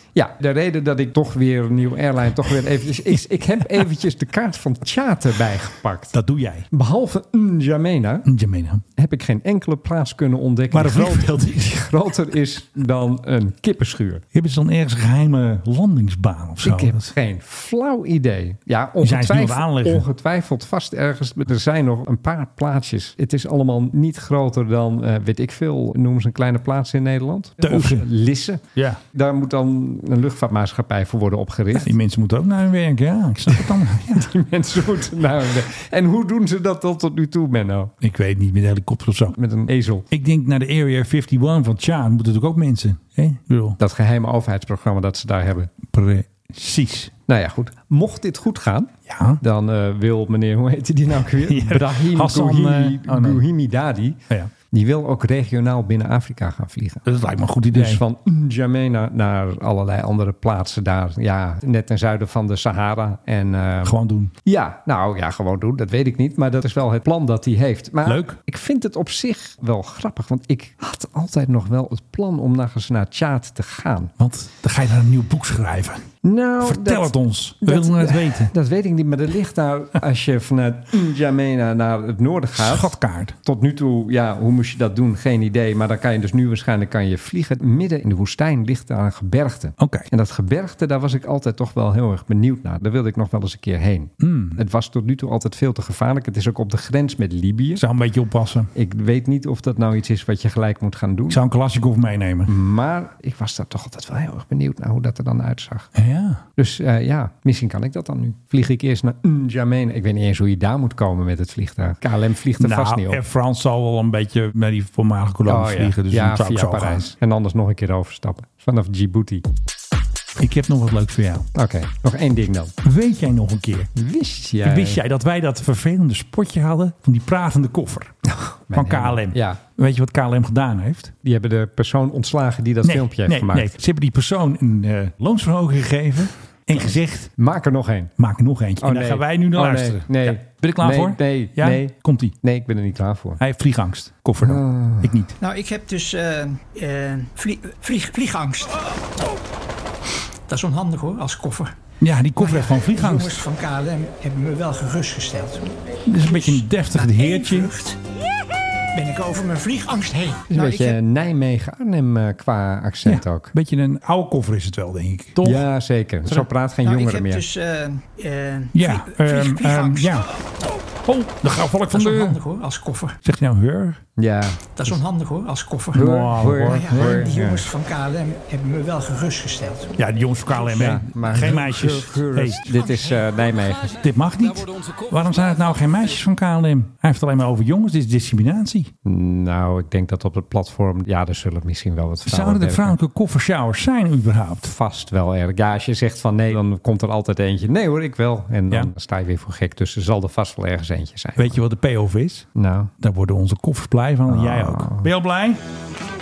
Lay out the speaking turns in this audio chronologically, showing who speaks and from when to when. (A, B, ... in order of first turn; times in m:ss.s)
0:00.2-0:06.1 A
0:03.1-0:03.8 B
0:06.1-0:06.7 B
0:06.7-0:08.3 A
0:08.2-0:08.8 B
0:09.0-0:14.2 A
0:10.7-0:11.7 B
0:14.3-0:17.1 B
0:16.6-0:32.0 A
0:19.0-0:20.0 B
0:27.6-0:28.1 B
0:28.7-0:29.0 B
0:31.7-0:34.3 B
0:33.5-0:37.9 A
0:38.0-0:39.4 B
0:39.3-0:40.0 A
0:40.1-0:43.8 B
0:43.8-0:45.7 A
0:45.9-0:47.1 B
0:47.3-0:57.1 A
0:49.1-0:49.4 B
0:51.3-0:53.4 B
0:57.0-0:58.0 B
0:57.7-1:14.1 A
1:03.8-1:04.3 B
1:08.0-1:08.4 B
1:14.2-1:16.1 B
1:16.2-1:37.8 A
1:16.6-1:18.5 B
1:22.6-1:23.4 B
1:29.8-1:30.1 B
1:34.2-1:34.6 B
1:37.8-1:38.7 B
1:38.8-1:41.4 A
1:41.3-1:42.5 B
1:42.5-1:45.9 A
1:46.0-1:46.4 B
1:46.6-1:53.2 A
1:52.6-1:57.1 B
1:55.5-1:59.4 A
2:00.4-2:01.5 B
2:01.5-2:02.7 A
2:02.8-2:03.9 B
2:04.0-2:05.0 A
2:04.6-2:08.2 B
2:08.2-2:09.6 A
2:08.7-2:11.1 B
2:11.2-2:13.8 A
2:12.8-2:17.3 B
2:16.7-2:18.1 A
2:18.2-2:22.4 B
2:18.8-2:23.4 A
2:23.4-2:25.4 B
2:24.4-2:25.2 A
2:25.4-2:28.9 C
2:30.5-2:31.8 C
2:32.0-2:33.4 B
2:32.4-2:38.0 C
2:36.1-2:37.7 B
2:38.9-2:41.0 C
2:40.5-2:43.5 A
2:43.0-2:45.7 B
2:45.4-2:47.4 A
2:46.8-2:50.3 C
2:48.7-2:50.3 B
2:51.0-2:52.4 B
2:51.9-2:53.2 C
2:53.2-2:54.0 B
2:54.2-2:54.9 A
2:54.8-3:00.0 C
2:55.9-2:57.3 B
2:55.9-2:57.7 A
3:00.0-3:02.7 B
3:00.7-3:03.9 A
3:02.7-3:03.3 C
3:03.8-3:08.9 B
3:09.0-3:13.0 A
3:12.2-3:14.7 B
3:14.6-3:21.6 A
3:21.4-3:22.5 B
3:22.6-3:22.9 A
3:23.0-3:25.6 B
3:24.3-3:25.1 A